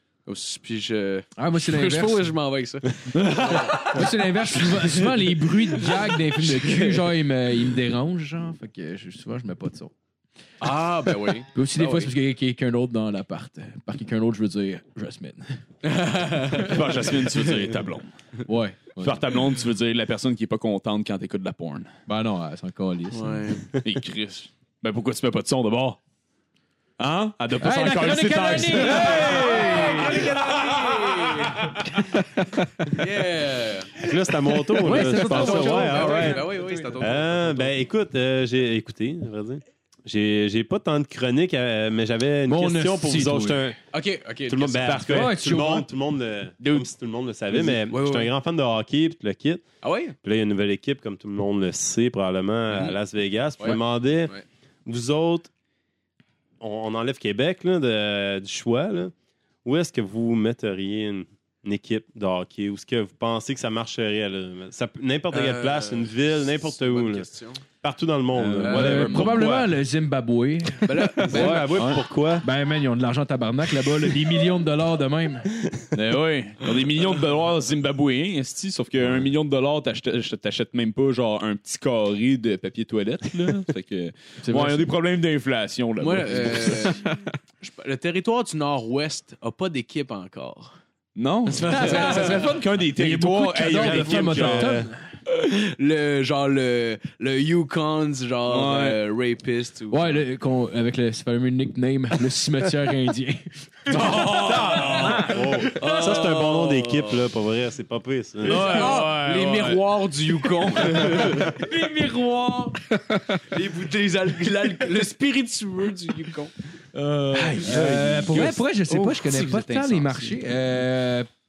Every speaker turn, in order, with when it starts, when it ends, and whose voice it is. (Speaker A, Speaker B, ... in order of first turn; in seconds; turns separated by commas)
Speaker A: 0.2-5.1, Speaker B: 1.4-2.3, Speaker C: 3.1-4.1, Speaker B: 3.7-9.9, Speaker A: 5.8-7.0, Speaker A: 10.6-12.1, Speaker B: 11.5-15.5, Speaker A: 15.8-17.6, Speaker C: 16.6-18.1, Speaker B: 18.4-19.2, Speaker C: 19.0-21.9, Speaker B: 22.1-23.6, Speaker A: 23.1-23.7, Speaker C: 23.8-26.0, Speaker C: 27.0-32.2, Speaker B: 27.6-30.2, Speaker A: 28.9-31.8, Speaker A: 32.9-34.0, Speaker D: 34.0-43.8, Speaker B: 34.8-37.0, Speaker A: 34.9-37.8, Speaker B: 42.5-43.6, Speaker A: 43.9-45.1, Speaker D: 44.5-49.6, Speaker C: 44.8-45.4, Speaker B: 45.0-45.9, Speaker C: 46.6-46.9, Speaker A: 47.5-48.3, Speaker A: 49.8-50.1, Speaker D: 50.2-54.3, Speaker A: 52.7-53.0, Speaker A: 53.6-54.4, Speaker D: 54.9-55.5, Speaker D: 56.6-59.1, Speaker D: 59.6-67.3, Speaker A: 65.3-67.6, Speaker D: 67.8-69.6, Speaker C: 68.3-69.7, Speaker A: 68.6-69.0, Speaker B: 68.7-71.5, Speaker A: 70.8-71.9, Speaker D: 71.2-72.5, Speaker C: 71.4-72.0, Speaker B: 72.4-75.5, Speaker C: 75.9-87.0, Speaker B: 84.4-84.9, Speaker A: 86.0-87.0, Speaker A: 87.6-90.7, Speaker C: 91.2-94.9, Speaker A: 91.5-92.5, Speaker B: 91.7-92.4, Speaker B: 92.9-95.0, Speaker D: 93.8-94.9, Speaker A: 95.3-100.2, Speaker C: 98.5-99.0, Speaker B: 99.9-106.2, Speaker C: 103.9-105.4, Speaker A: 103.9-107.3, Speaker D: 105.0-108.7, Speaker C: 108.4-109.8, Speaker A: 108.4-111.6, Speaker C: 110.6-111.2, Speaker B: 111.2-112.8, Speaker A: 113.4-116.5, Speaker B: 117.0-121.3, Speaker C: 117.3-118.7, Speaker A: 118.9-120.3